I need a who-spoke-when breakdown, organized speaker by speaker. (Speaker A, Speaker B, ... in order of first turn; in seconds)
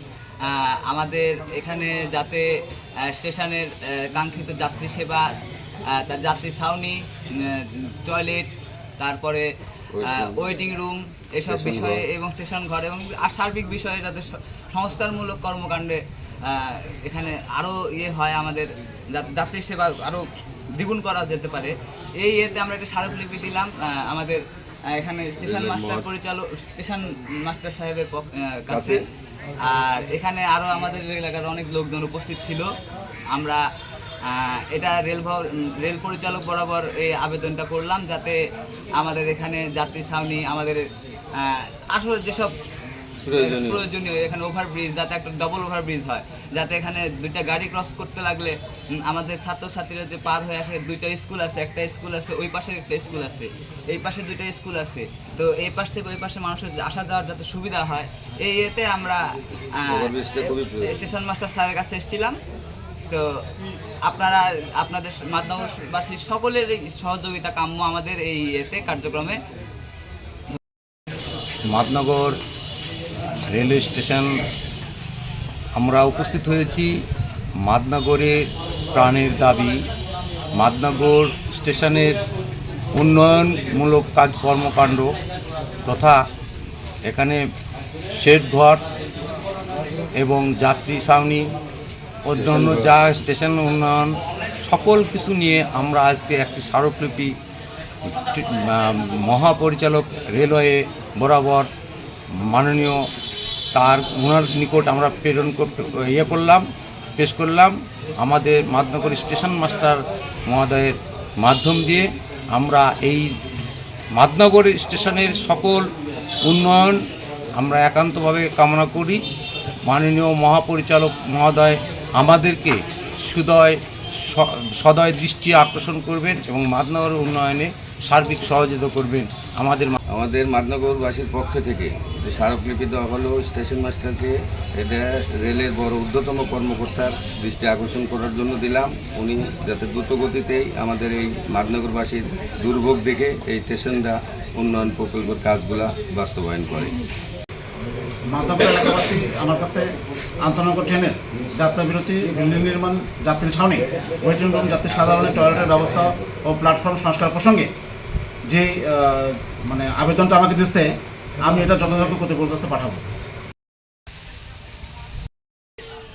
Speaker A: 0.5-2.5, 3.1-5.3, 5.8-8.5, 9.0-9.5, 10.1-20.2, 20.8-24.4, 24.9-29.0, 29.6-32.7, 33.3-33.6, 34.2-38.4, 39.0-42.5, 43.3-59.2, 59.8-62.4, 64.0-69.4
Speaker B: 9.9-10.4, 11.5-12.0, 25.4-26.0, 28.7-29.0, 43.2-43.8, 59.9-61.0, 92.3-92.9, 130.1-146.9
Speaker C: 71.7-72.4, 73.5-74.3, 75.7-76.9, 77.6-79.8, 80.5-82.2, 82.9-85.1, 85.8-86.2, 87.1-87.4, 88.1-88.8, 90.2-91.5, 92.2-97.3, 98.1-101.7, 102.4-103.0, 103.7-106.7, 107.2-113.3, 114.1-115.8, 116.4-117.0, 117.5-119.2, 119.8-130.0
Speaker D: 148.3-149.9, 150.4-157.7, 158.5-160.9, 161.4-163.1